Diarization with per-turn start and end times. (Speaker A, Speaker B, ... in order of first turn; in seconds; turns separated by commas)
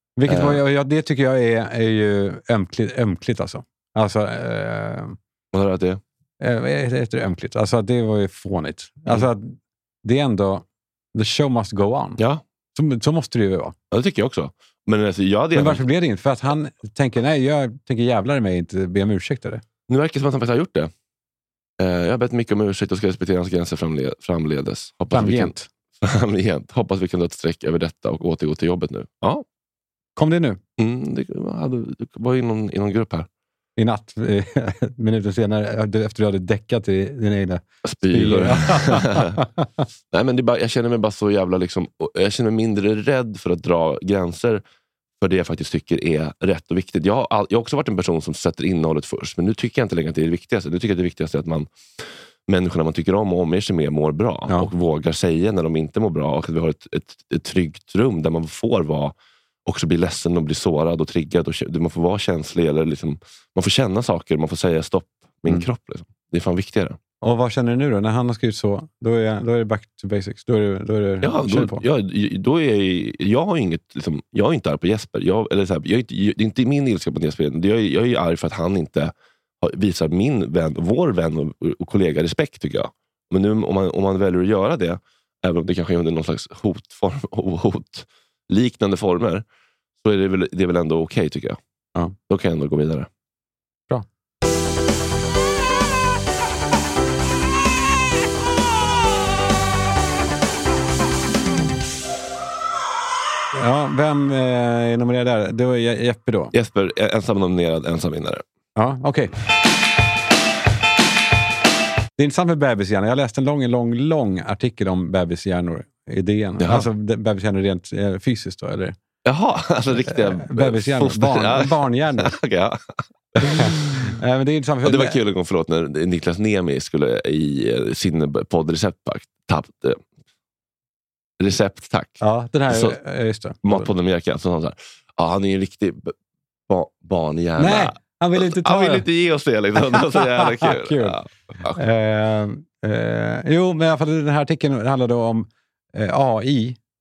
Speaker A: 0.2-5.2, Speaker B: 0.3-0.6, Speaker B: 5.5-6.0, Speaker A: 6.4-12.2, Speaker B: 12.2-12.4, Speaker A: 12.8-13.8, Speaker B: 13.9-15.8, Speaker A: 15.6-19.6, Speaker B: 19.9-20.9, Speaker B: 21.8-29.4, Speaker A: 25.1-25.7, Speaker A: 30.2-30.6, Speaker B: 30.8-33.3, Speaker A: 33.8-39.7, Speaker B: 37.8-39.4, Speaker B: 40.1-44.6, Speaker B: 45.2-59.1, Speaker B: 59.7-67.0, Speaker A: 67.2-71.8, Speaker B: 71.2-89.5, Speaker B: 90.0-91.6, Speaker B: 92.3-93.1, Speaker A: 103.5-106.5, Speaker B: 106.5-108.4, Speaker A: 108.8-109.3, Speaker A: 112.2-119.0, Speaker B: 116.6-116.9, Speaker B: 119.2-122.8, Speaker A: 120.1-122.3, Speaker B: 123.4-124.2, Speaker A: 123.4-125.2, Speaker B: 124.8-130.0, Speaker B: 131.4-133.0, Speaker A: 132.2-133.9, Speaker B: 133.6-136.1, Speaker B: 136.7-141.8, Speaker A: 137.6-139.1, Speaker A: 139.8-141.2, Speaker A: 141.7-146.8